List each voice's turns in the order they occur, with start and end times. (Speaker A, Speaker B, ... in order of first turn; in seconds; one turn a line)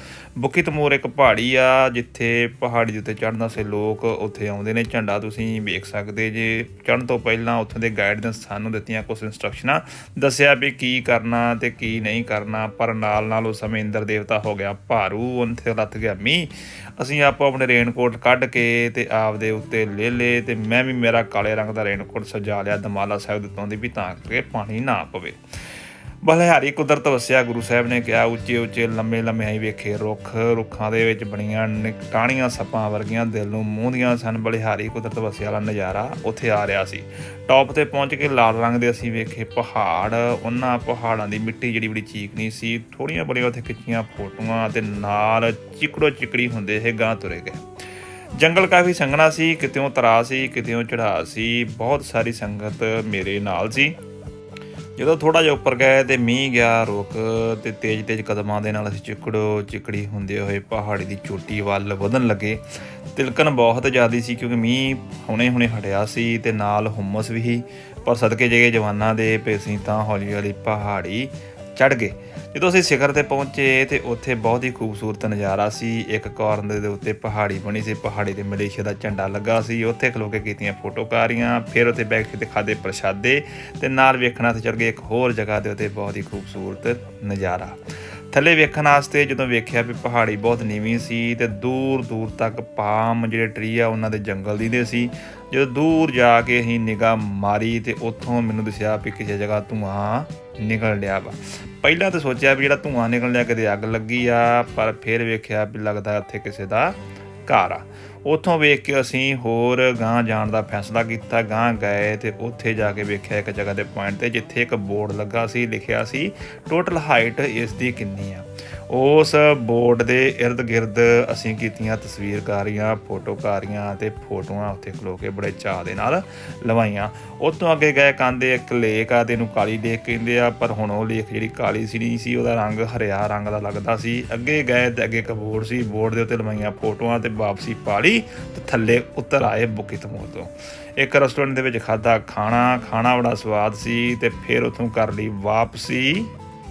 Speaker A: 0.4-25.4
Speaker A: 26.2-47.6
Speaker A: 48.3-54.0
Speaker A: 55.0-62.6
Speaker A: 63.1-87.8
Speaker A: 88.3-146.3